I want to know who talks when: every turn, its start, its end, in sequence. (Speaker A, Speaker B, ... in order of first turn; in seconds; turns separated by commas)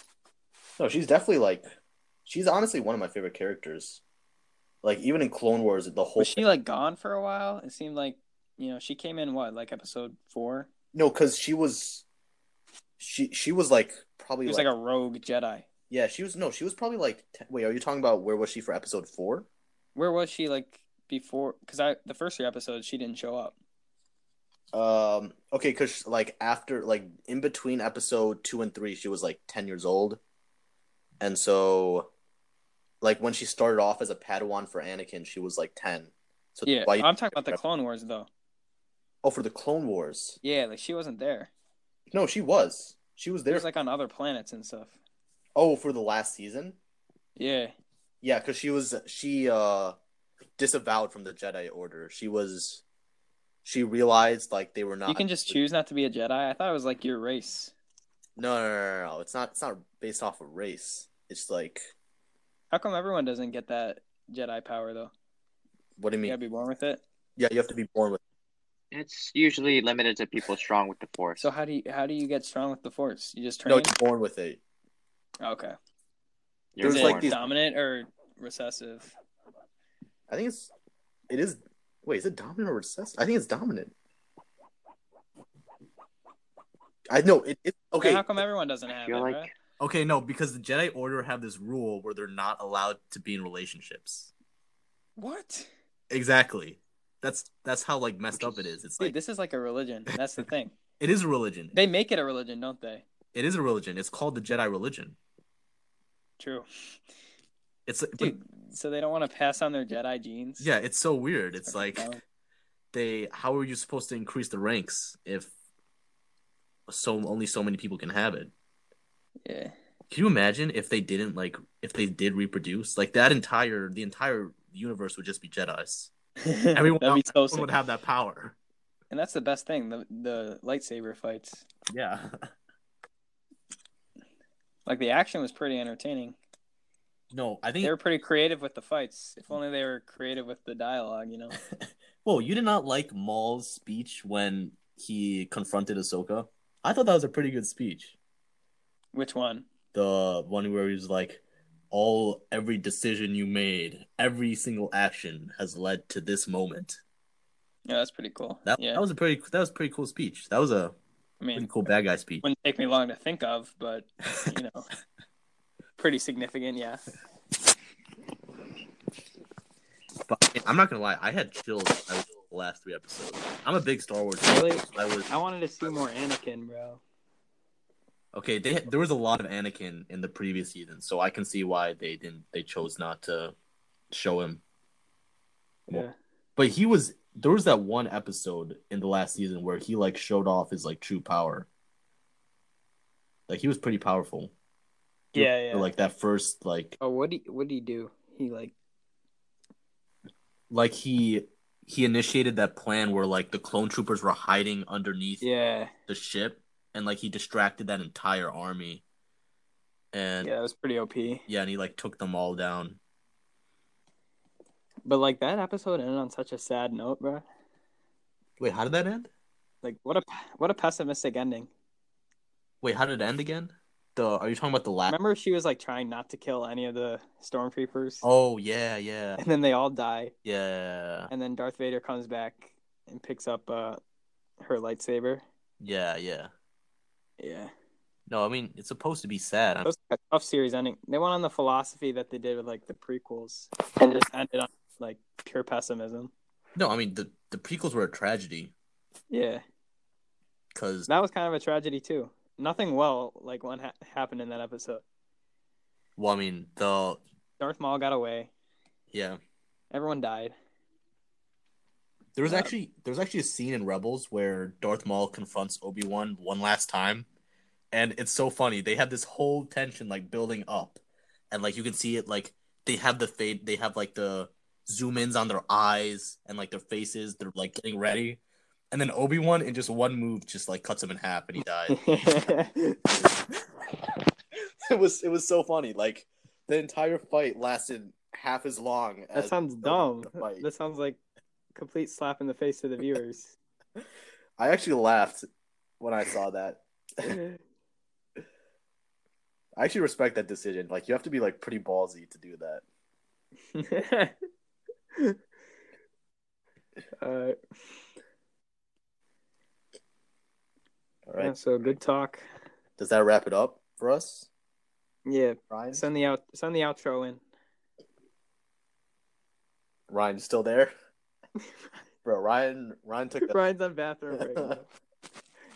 Speaker A: 0.8-1.7, Speaker A: 2.3-4.0, Speaker A: 4.8-6.4, Speaker B: 6.2-10.7, Speaker A: 10.9-12.1, Speaker A: 13.0-14.7, Speaker B: 14.4-15.7, Speaker A: 15.9-19.5, Speaker B: 19.9-23.6, Speaker A: 24.7-30.2, Speaker A: 31.2-32.1, Speaker A: 33.0-37.6, Speaker B: 36.7-38.3, Speaker A: 39.2-40.4, Speaker B: 40.4-41.5, Speaker A: 42.1-43.7, Speaker B: 43.5-45.0, Speaker A: 45.6-46.8, Speaker B: 47.4-47.7, Speaker A: 48.2-50.0, Speaker A: 50.6-52.8, Speaker A: 53.6-55.6, Speaker B: 55.1-57.7, Speaker A: 58.4-61.8, Speaker B: 62.7-65.1, Speaker A: 66.0-66.4, Speaker B: 66.2-67.0, Speaker A: 67.4-68.2, Speaker C: 68.9-71.5, Speaker B: 71.4-73.9, Speaker A: 73.7-74.6, Speaker B: 75.4-75.8, Speaker C: 76.8-77.3, Speaker A: 76.8-77.5, Speaker B: 76.8-79.1, Speaker A: 80.3-80.7, Speaker A: 81.3-83.9, Speaker A: 87.1-88.2, Speaker B: 88.0-89.5, Speaker C: 88.9-89.5, Speaker A: 89.8-94.3, Speaker B: 95.2-95.7, Speaker A: 96.1-99.2, Speaker B: 99.0-100.8, Speaker A: 101.0-101.8, Speaker B: 101.7-103.0, Speaker A: 103.3-105.2, Speaker B: 106.4-106.7, Speaker A: 107.9-108.4, Speaker B: 108.2-110.7, Speaker A: 110.6-112.1, Speaker B: 111.7-112.2, Speaker A: 112.9-115.5, Speaker A: 116.9-118.5, Speaker B: 119.5-119.7, Speaker A: 120.1-126.1, Speaker B: 126.4-127.7, Speaker A: 126.8-128.6, Speaker B: 129.1-131.7, Speaker A: 131.9-132.3, Speaker B: 134.9-136.4, Speaker A: 137.3-138.0, Speaker B: 137.8-141.6, Speaker A: 141.7-148.2, Speaker B: 149.1-149.7, Speaker A: 149.9-157.0, Speaker B: 157.9-159.0, Speaker A: 158.7-161.0, Speaker B: 161.4-161.7, Speaker A: 161.6-162.4, Speaker B: 162.4-164.9, Speaker B: 166.0-167.0, Speaker A: 170.3-175.3, Speaker B: 174.4-177.0, Speaker A: 178.3-183.5, Speaker A: 184.1-184.6, Speaker B: 185.9-186.1, Speaker A: 186.6-191.7, Speaker A: 193.5-194.5, Speaker B: 195.3-195.9, Speaker A: 195.3-197.0, Speaker B: 197.0-198.7, Speaker A: 200.7-205.4, Speaker B: 205.4-205.9, Speaker A: 206.1-209.0, Speaker A: 210.1-210.5, Speaker B: 210.4-211.4, Speaker A: 211.5-213.0, Speaker B: 215.1-217.4, Speaker A: 218.6-219.3, Speaker B: 219.8-221.7, Speaker A: 222.8-225.2, Speaker B: 225.1-228.3, Speaker A: 228.2-229.4, Speaker B: 229.4-230.3, Speaker A: 230.4-231.3, Speaker B: 231.3-234.0, Speaker B: 234.6-235.4, Speaker A: 235.8-236.5, Speaker B: 237.4-237.7, Speaker A: 238.3-239.9, Speaker B: 239.8-246.3, Speaker A: 246.8-248.7, Speaker B: 249.3-249.6, Speaker A: 250.8-251.1, Speaker B: 251.1-255.0, Speaker A: 256.2-257.2, Speaker B: 257.6-258.5, Speaker A: 259.1-259.4, Speaker B: 259.9-260.6, Speaker A: 262.4-267.3, Speaker B: 262.5-262.7, Speaker A: 267.9-271.0, Speaker A: 271.5-282.0, Speaker B: 281.9-283.2, Speaker A: 284.9-290.6, Speaker B: 289.3-291.2, Speaker B: 291.8-293.6, Speaker A: 294.6-295.4, Speaker A: 296.0-297.4, Speaker B: 297.3-297.6, Speaker A: 299.8-302.8, Speaker B: 303.8-304.4, Speaker B: 307.2-307.6, Speaker A: 311.3-311.6, Speaker B: 311.4-312.4, Speaker A: 313.0-314.5, Speaker B: 315.3-317.4, Speaker A: 315.7-316.0, Speaker A: 320.1-320.9, Speaker A: 322.2-323.6, Speaker B: 323.4-324.9, Speaker A: 324.3-324.8